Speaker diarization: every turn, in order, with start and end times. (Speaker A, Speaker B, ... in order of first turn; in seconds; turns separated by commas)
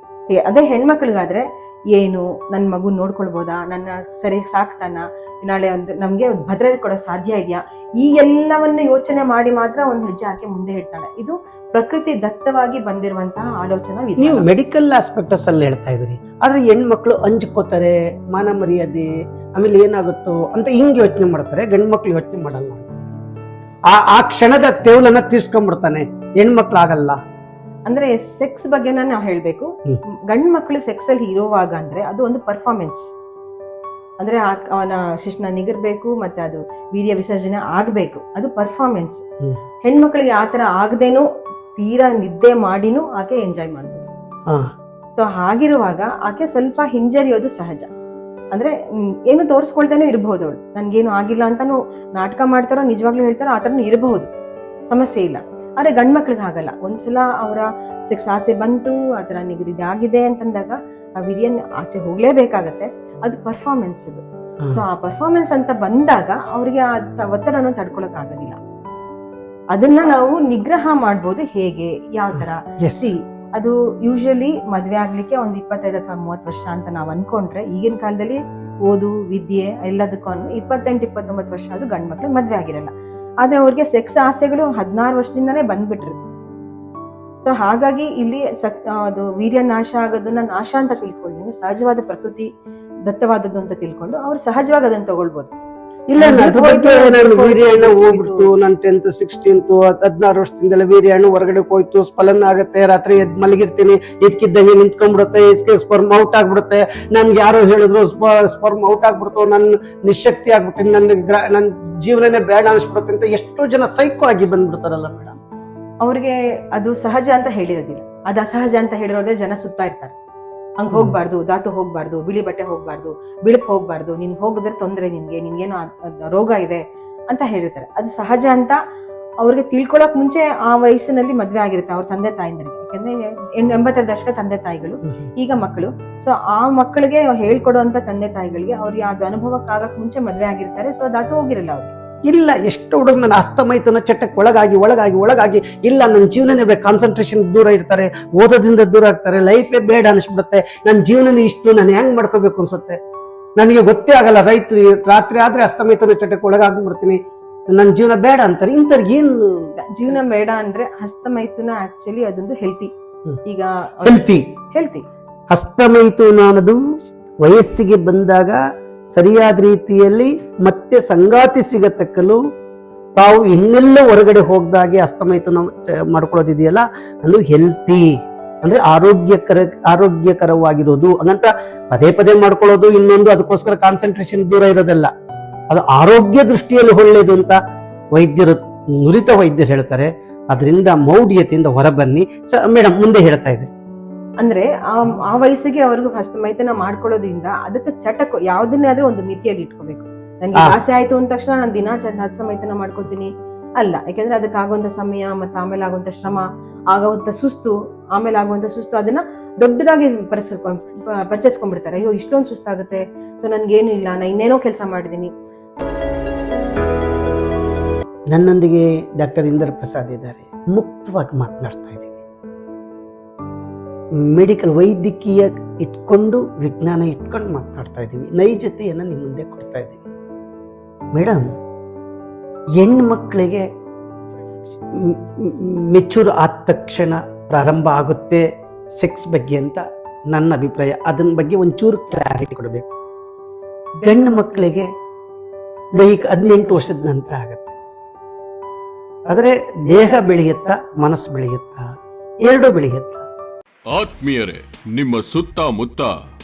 Speaker A: 0.3-14.5, Speaker B: 14.2-22.9, Speaker B: 23.9-27.2, Speaker A: 27.9-29.7, Speaker A: 30.3-33.0, Speaker A: 34.2-39.2, Speaker A: 39.9-41.2, Speaker A: 41.8-44.1, Speaker A: 45.1-47.9, Speaker A: 49.3-54.3, Speaker A: 54.9-68.6, Speaker A: 69.7-82.9, Speaker B: 72.3-73.1, Speaker A: 83.4-86.2, Speaker A: 87.5-92.5, Speaker A: 93.1-95.5, Speaker B: 96.1-115.3, Speaker A: 96.2-98.5, Speaker A: 116.0-120.2, Speaker A: 120.8-128.8, Speaker A: 129.4-141.9, Speaker B: 142.2-153.0, Speaker B: 153.6-157.2, Speaker B: 157.7-159.5, Speaker A: 159.8-162.9, Speaker A: 163.4-165.1, Speaker B: 164.1-164.4, Speaker B: 165.5-166.8, Speaker B: 167.4-172.4, Speaker B: 173.2-178.1, Speaker B: 178.6-185.1, Speaker B: 185.7-187.6, Speaker B: 188.1-193.7, Speaker A: 194.4-215.3, Speaker B: 218.3-222.2, Speaker B: 224.3-230.0, Speaker B: 231.2-231.5, Speaker B: 232.8-233.6, Speaker B: 235.0-238.4, Speaker B: 239.0-242.9, Speaker B: 244.0-244.9, Speaker B: 245.9-247.8, Speaker B: 249.3-251.9, Speaker B: 252.4-253.3, Speaker C: 253.9-256.1